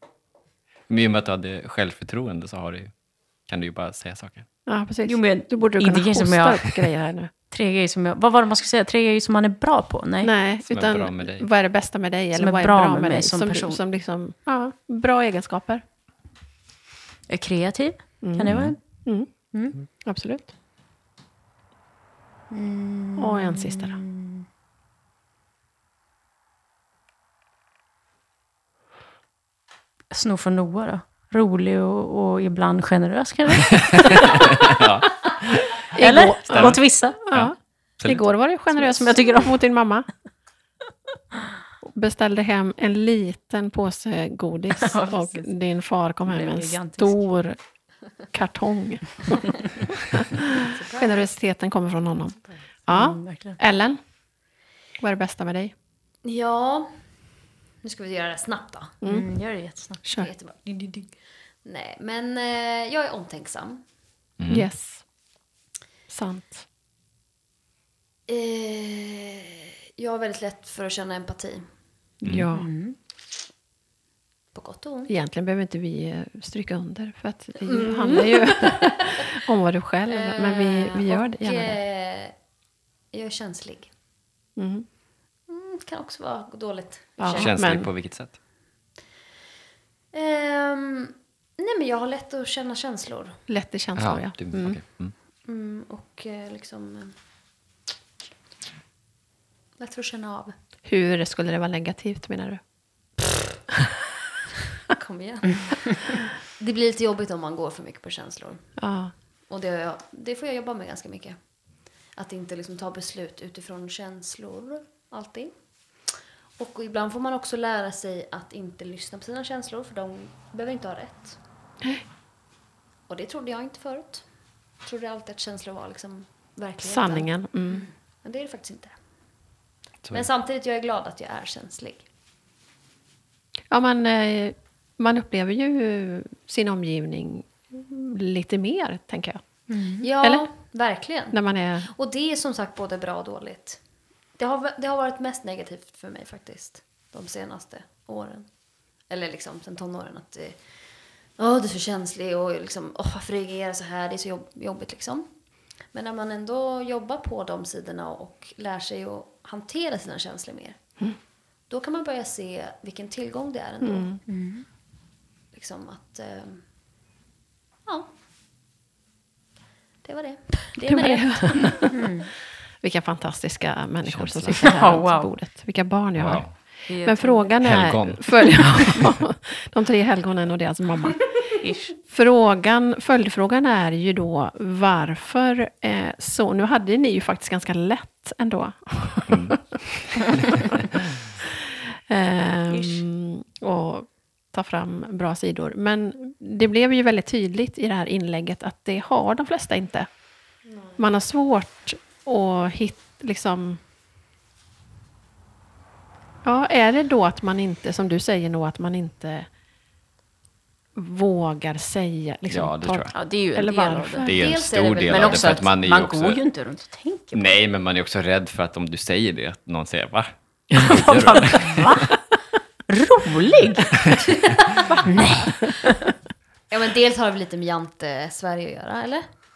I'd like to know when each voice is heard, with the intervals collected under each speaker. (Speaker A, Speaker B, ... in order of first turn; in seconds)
Speaker A: 0.9-2.9, 3.5-4.5, 10.7-11.5, 18.5-18.8, 33.9-38.2, 64.4-64.7, 87.3-88.4, 94.0-95.1, 174.1-174.8, 176.2-176.6, 177.6-178.8, 189.3-190.4, 212.5-213.2, 214.2-216.4, 217.3-222.1
Speaker B: 4.7-7.3, 10.2-15.8, 18.2-19.3, 20.0-20.5, 23.2-24.0, 35.9-40.1, 41.8-47.6, 48.3-49.5, 50.1-54.0, 55.0-55.7, 59.0-59.3, 60.0-60.3, 64.5-65.0, 66.1-66.6, 72.2-72.7, 75.1-81.8, 84.6-84.9, 87.2-87.9, 93.5-94.8, 100.8-102.6, 108.8-109.1, 126.8-127.9, 133.7-139.4, 141.3-141.9, 163.8-164.2, 170.8-172.1, 172.8-181.5, 182.0-189.6, 191.7-200.1, 201.0-203.8, 206.4-209.5, 210.9-214.3
Speaker C: 5.0-6.7, 7.5-10.3, 12.3-13.8, 17.3-18.8, 22.5-24.5, 30.1-34.8, 36.0-37.2, 38.7-39.6, 44.8-45.5, 46.3-47.2, 52.9-53.6, 59.0-60.0, 72.5-73.0, 139.7-140.1, 164.3-164.7, 171.4-172.3, 174.6-175.3, 176.9-177.6, 181.6-181.9, 192.7-193.0, 213.1-214.3, 215.1-217.6, 220.8-222.2, 222.9-224.2, 225.0-226.1
Speaker D: 50.7-51.2, 56.2-57.0, 57.8-59.0, 60.1-63.9, 68.3-71.7, 74.5-75.1, 77.7-79.2, 80.1-82.3, 83.1-83.9, 85.5-87.5, 90.1-93.4, 95.5-97.1, 99.8-100.5, 104.9-108.7, 109.5-111.4, 112.1-115.5, 116.6-121.4, 123.1-124.2, 124.8-128.9, 130.1-132.1, 140.0-143.8, 144.4-148.5, 149.1-150.6, 151.4-155.3, 155.9-160.8, 161.7-164.1, 165.5-166.6, 170.0-171.8, 214.3-215.7, 224.5-224.9, 226.7-229.3